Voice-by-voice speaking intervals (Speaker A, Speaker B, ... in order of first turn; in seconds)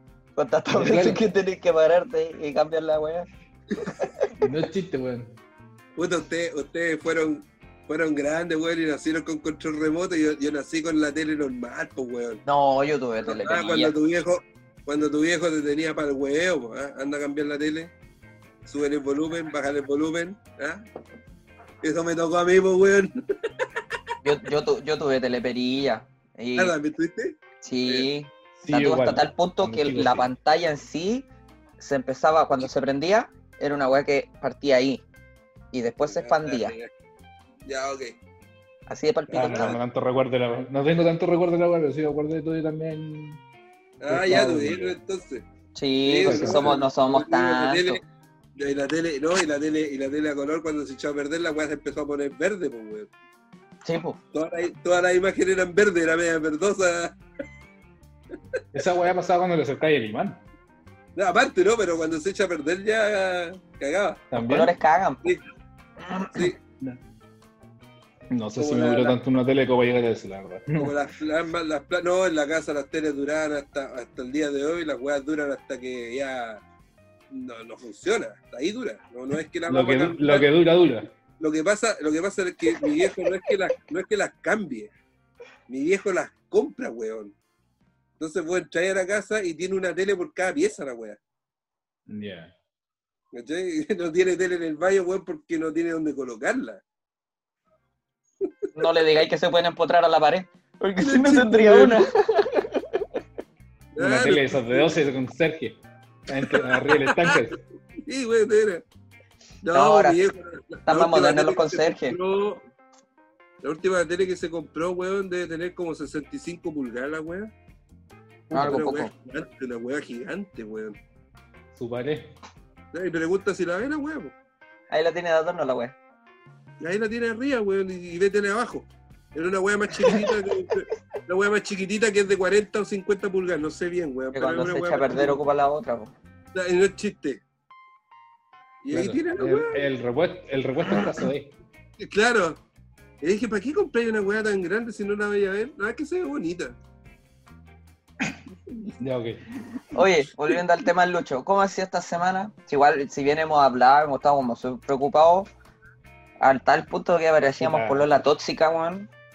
Speaker A: 0.3-3.3, 12.4-13.9, 24.2-26.7, 27.6-31.3, 31.8-35.0, 35.7-36.7, 38.9-39.8, 45.7-48.0, 53.8-54.2, 64.4-65.3, 98.7-103.0, 109.7-110.2, 110.9-112.2, 118.5-119.1, 124.9-125.9, 134.3-136.1, 149.9-155.5, 156.4-159.1
Speaker B: 0.7-1.2, 4.4-5.4, 28.6-30.3, 39.3-43.4, 44.1-45.0, 46.2-46.8, 58.7-60.4, 64.3-64.7, 66.1-67.0, 68.3-70.9, 79.7-81.1, 92.1-92.5, 104.0-107.6, 118.5-118.8, 121.8-122.3, 138.9-141.5, 149.0-149.5, 157.6-158.2
Speaker C: 6.0-12.4, 13.2-17.9, 18.6-20.8, 21.8-23.7, 26.6-28.1, 36.1-36.9, 37.6-38.2, 39.3-39.7, 44.0-45.4, 46.0-48.0, 48.5-53.1, 54.3-57.2, 61.1-64.2, 68.6-69.2, 70.7-76.6, 77.3-80.5, 81.4-84.9, 85.7-87.3, 88.2-91.2, 93.3-96.8, 101.0-102.0, 103.9-104.9, 106.5-107.4, 108.0-108.8, 109.6-112.6, 113.6-117.5, 118.5-121.0, 122.9-124.3, 126.8-135.4, 136.5-137.4, 138.8-139.8, 142.0-142.6, 143.2-146.8